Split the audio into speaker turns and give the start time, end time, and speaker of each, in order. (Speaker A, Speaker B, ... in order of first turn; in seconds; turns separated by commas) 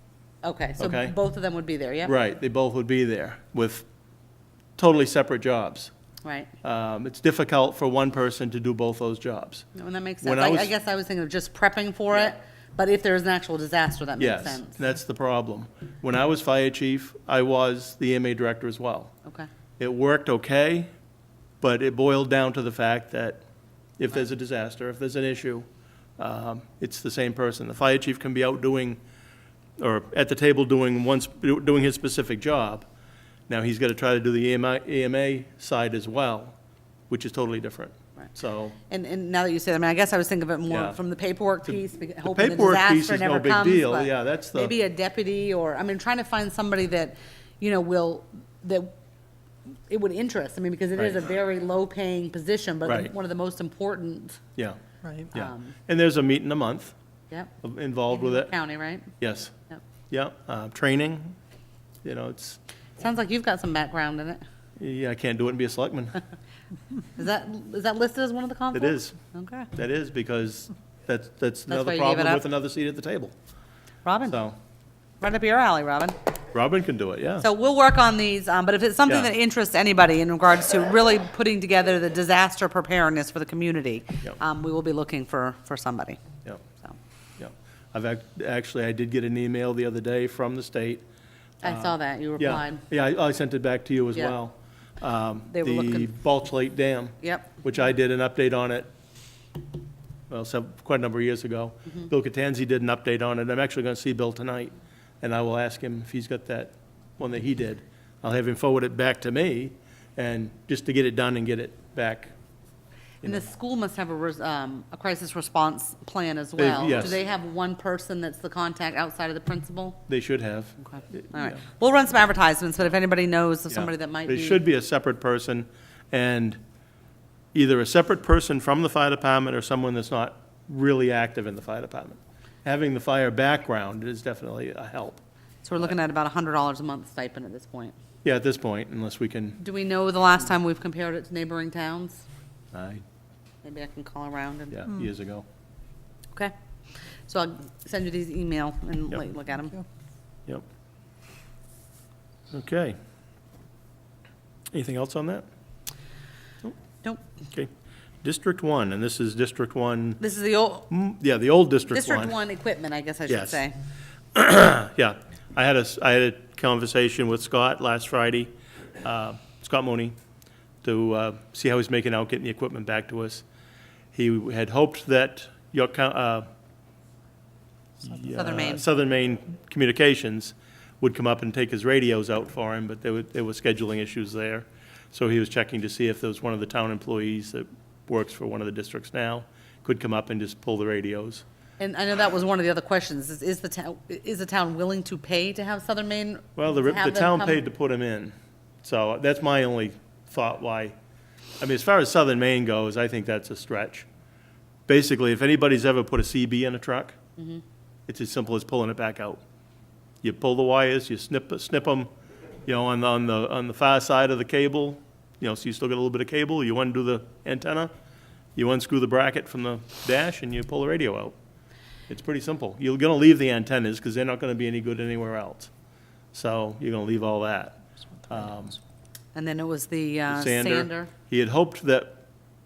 Speaker A: 0.4-2.1, Speaker B: 0.8-1.1, Speaker B: 2.0-3.9, Speaker B: 4.8-5.9, Speaker A: 6.2-6.5, Speaker B: 6.6-9.7, Speaker A: 9.8-14.8, Speaker B: 10.2-10.7, Speaker B: 14.2-19.1, Speaker B: 19.8-20.9, Speaker B: 21.6-23.4, Speaker B: 24.0-25.7, Speaker B: 26.2-29.0, Speaker B: 29.8-32.9, Speaker B: 33.5-36.6, Speaker B: 37.1-38.8, Speaker A: 38.9-48.9, Speaker B: 40.7-41.0, Speaker B: 41.7-44.7, Speaker A: 49.9-54.4, Speaker B: 51.0-51.2, Speaker B: 52.9-53.1, Speaker A: 55.3-55.8, Speaker B: 55.3-57.0, Speaker A: 57.3-57.6, Speaker B: 57.6-58.5, Speaker A: 58.1-59.1, Speaker B: 59.2-59.5, Speaker B: 60.1-61.4, Speaker B: 62.0-62.6, Speaker A: 63.0-64.4, Speaker B: 64.8-66.2, Speaker A: 67.2-69.7, Speaker B: 68.7-69.2, Speaker B: 69.7-73.3, Speaker A: 71.7-72.4, Speaker A: 74.0-74.4, Speaker B: 74.3-74.5, Speaker A: 75.2-76.2, Speaker B: 76.5-77.5, Speaker A: 77.4-86.2, Speaker B: 79.1-79.3, Speaker B: 87.4-91.0, Speaker A: 91.6-92.9, Speaker B: 91.6-98.9, Speaker A: 95.5-96.1, Speaker A: 97.2-97.5, Speaker B: 100.3-112.3, Speaker B: 113.2-113.5, Speaker A: 113.2-120.1, Speaker B: 116.6-117.2, Speaker B: 120.1-121.6, Speaker A: 120.8-124.6, Speaker B: 123.7-126.6, Speaker B: 127.5-135.2, Speaker A: 135.6-137.9, Speaker B: 138.2-139.6, Speaker A: 139.6-142.2, Speaker B: 142.7-143.0, Speaker A: 143.6-144.9, Speaker B: 144.7-145.4, Speaker A: 147.3-149.8, Speaker B: 152.5-153.0, Speaker B: 154.7-155.4, Speaker B: 158.2-160.2, Speaker A: 160.2-160.9, Speaker B: 160.9-162.3, Speaker A: 161.9-163.7, Speaker B: 163.3-163.6, Speaker B: 164.3-168.5, Speaker B: 169.0-170.2, Speaker B: 170.8-173.4, Speaker B: 174.1-176.5, Speaker B: 178.0-191.4, Speaker A: 178.3-178.8, Speaker A: 191.8-197.6, Speaker B: 196.6-200.9, Speaker B: 201.6-204.1, Speaker B: 204.9-207.2, Speaker A: 207.4-207.6, Speaker B: 208.1-209.4, Speaker B: 210.2-212.1, Speaker B: 212.7-217.9, Speaker B: 218.6-221.3, Speaker B: 222.1-225.7, Speaker B: 226.3-228.8, Speaker A: 229.3-231.1, Speaker B: 230.3-232.2